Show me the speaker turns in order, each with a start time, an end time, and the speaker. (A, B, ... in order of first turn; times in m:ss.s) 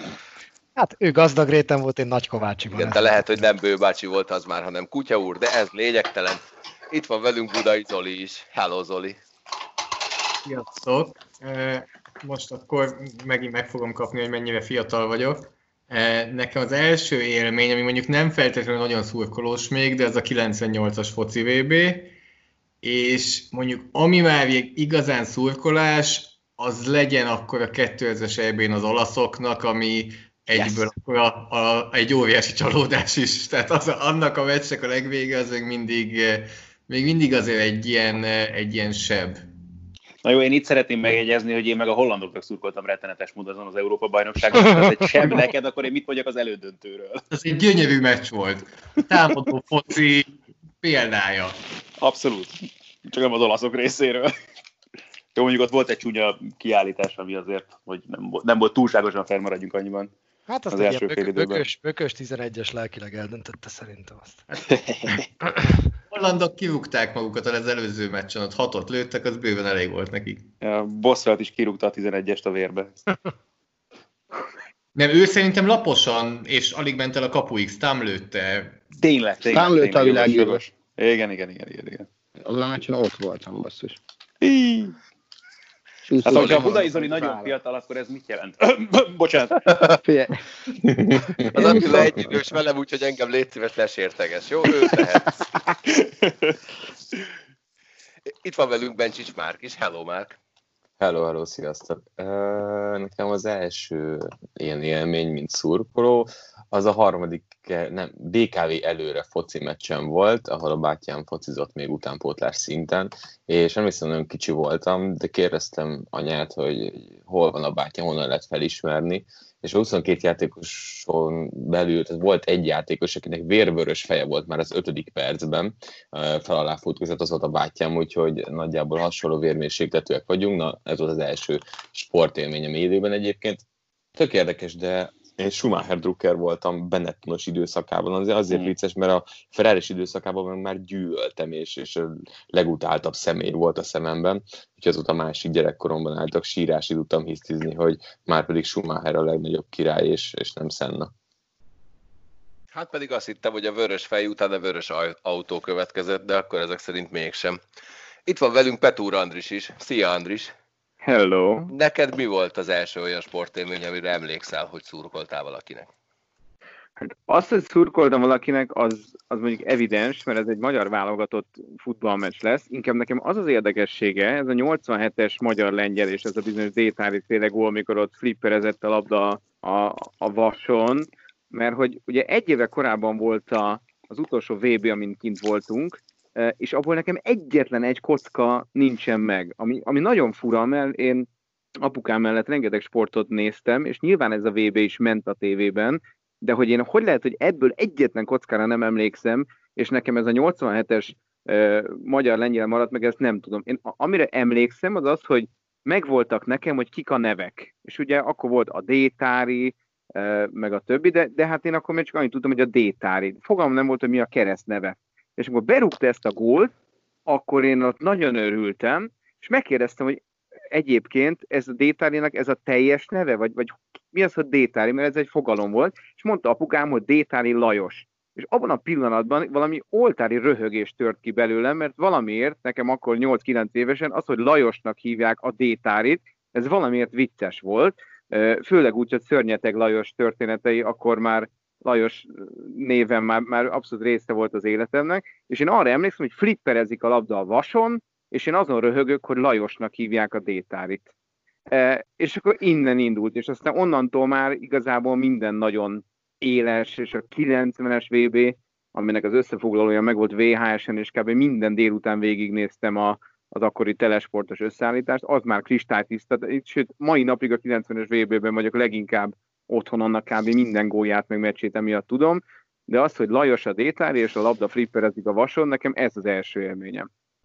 0:00.8-0:03.1 A
0:02.8-0:09.2 B
0:10.4-0:22.1 C
0:22.8-0:39.4 C
0:40.2-0:47.2 D
0:47.3-0:51.6 C
0:52.0-0:54.3 D
0:55.4-1:00.1 D
1:00.5-1:04.4 A
1:00.7-1:01.6 D
1:04.9-1:05.2 D
1:06.1-1:10.5 C
1:10.6-1:12.9 D
1:15.0-1:18.8 C
1:19.0-1:22.1 D
1:19.5-1:20.6 E
1:22.4-1:24.0 E
1:24.4-1:25.0 D
1:26.1-1:27.5 E
1:26.2-1:30.0 D
1:30.0-1:30.4 E
1:30.9-1:31.4 F
1:31.5-1:35.4 B
1:31.6-1:32.1 E
1:35.9-1:36.6 D
1:38.4-1:40.4 B
1:41.0-2:13.6 F
2:14.2-2:31.1 F
2:32.7-2:37.6 B
2:38.3-2:40.5 B
2:41.0-2:41.7 G
2:41.7-2:45.9 B
2:47.0-3:11.3 G
3:11.8-3:36.7 G
3:37.3-3:40.2 G
3:40.7-4:11.1 G
4:11.7-4:37.1 G